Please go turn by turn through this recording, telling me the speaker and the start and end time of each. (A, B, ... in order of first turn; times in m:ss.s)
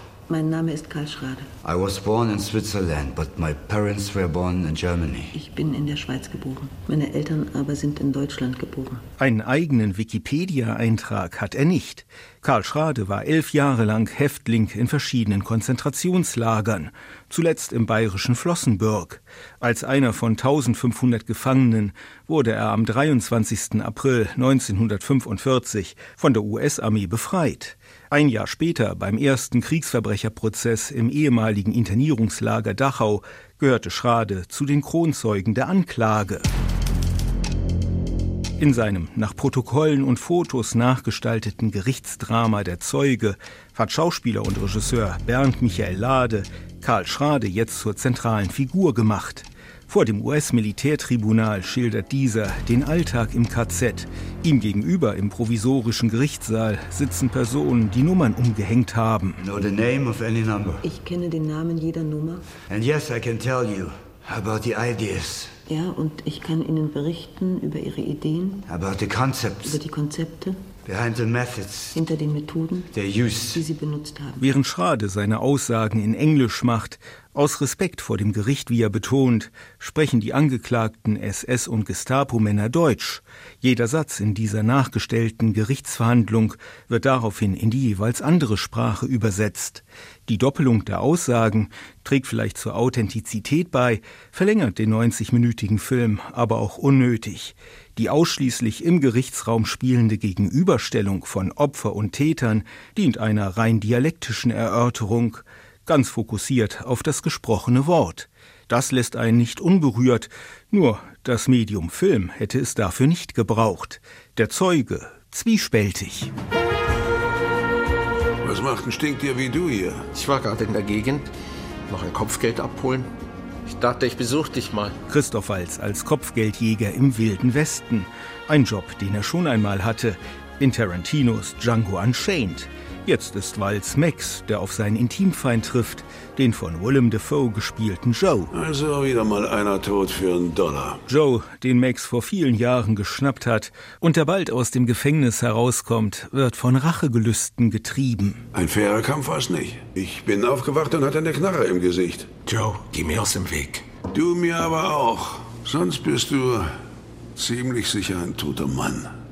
0:00.3-0:01.5 A
0:01.6-0:05.3 B
0:05.3-0:09.0 A
0:09.2-0:36.4 C
0:38.6-0:59.4 C
0:59.4-1:00.8 B
1:00.8-1:02.4 A
1:02.6-1:05.5 B
1:05.7-1:08.6 A
1:08.7-1:09.8 B
1:09.6-1:10.7 A
1:10.8-1:12.0 B
1:11.9-1:12.9 A
1:12.9-1:13.6 B
1:13.5-1:14.4 A
1:14.4-1:56.3 C
1:58.4-2:00.0 D
2:00.1-2:01.3 E
2:01.9-2:03.1 E
2:03.7-2:05.0 E
2:05.1-2:18.5 C
2:18.5-2:21.0 D
2:21.1-2:28.4 C
2:28.5-2:32.3 D
2:32.4-2:33.9 E
2:34.1-2:36.7 D
2:37.4-2:39.1 D